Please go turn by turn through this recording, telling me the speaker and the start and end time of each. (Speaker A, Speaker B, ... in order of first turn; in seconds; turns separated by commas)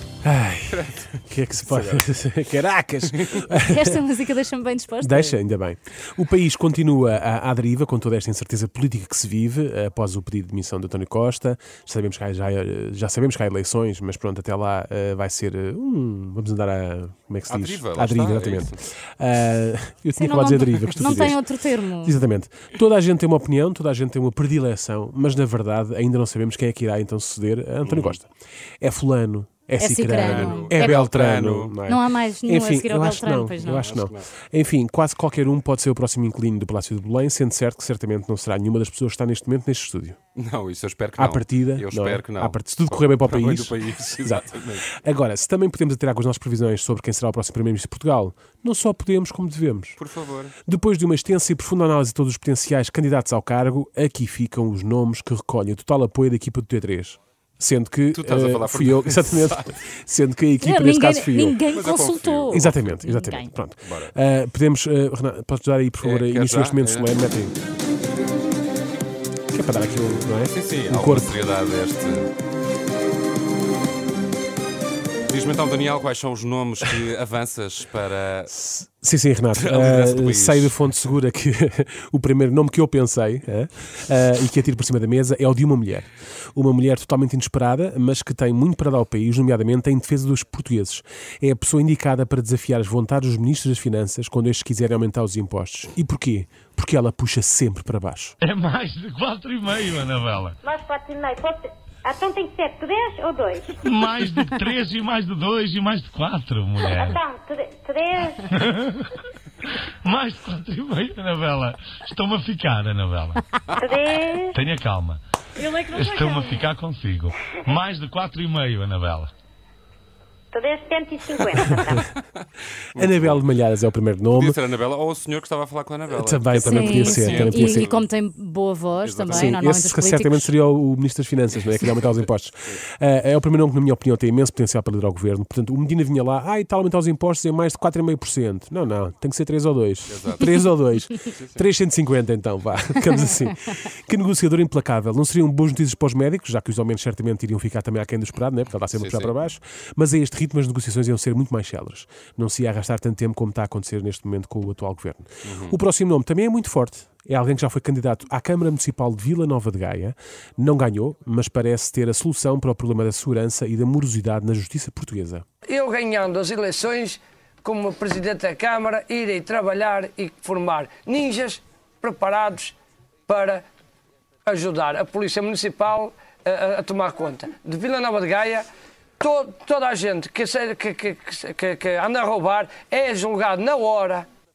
Speaker A: 0.2-4.0, Speaker B: 0.7-2.0, Speaker B: 3.1-3.4, Speaker C: 3.7-5.4, Speaker A: 5.0-21.4, Speaker B: 17.5-18.8, Speaker C: 20.2-22.2, Speaker A: 22.0-28.3, Speaker B: 27.8-28.2, Speaker A: 28.8-40.2, Speaker C: 29.8-31.0, Speaker B: 30.2-31.7, Speaker C: 31.9-33.9, Speaker B: 33.6-34.3, Speaker B: 40.4-44.9, Speaker A: 41.2-50.0, Speaker B: 50.0-50.5, Speaker A: 50.6-61.6, Speaker B: 58.1-59.8, Speaker C: 60.6-63.5, Speaker B: 61.7-63.0, Speaker A: 62.5-67.5, Speaker B: 63.8-64.1, Speaker B: 66.0-67.1, Speaker A: 69.5-71.4, Speaker B: 70.0-72.3, Speaker B: 75.3-78.5, Speaker A: 78.5-98.3, Speaker B: 79.5-80.8, Speaker D: 98.4-100.5, Speaker E: 100.6-104.2, Speaker D: 103.8-107.2, Speaker E: 106.8-108.5, Speaker D: 108.5-109.1, Speaker D: 110.0-113.4, Speaker E: 113.8-114.6, Speaker D: 114.5-115.2, Speaker E: 115.6-116.7, Speaker D: 115.8-119.3, Speaker E: 120.5-122.0, Speaker B: 121.4-121.7, Speaker B: 122.9-123.5, Speaker A: 123.0-124.6, Speaker B: 124.3-128.1, Speaker A: 126.1-127.9, Speaker C: 126.6-130.5, Speaker B: 129.0-129.6, Speaker A: 129.3-165.4, Speaker B: 140.1-141.7, Speaker B: 148.9-149.3, Speaker B: 155.4-155.8, Speaker F: 165.6-172.7, Speaker F: 173.3-173.6, Speaker F: 174.4-178.7, Speaker F: 179.2-184.2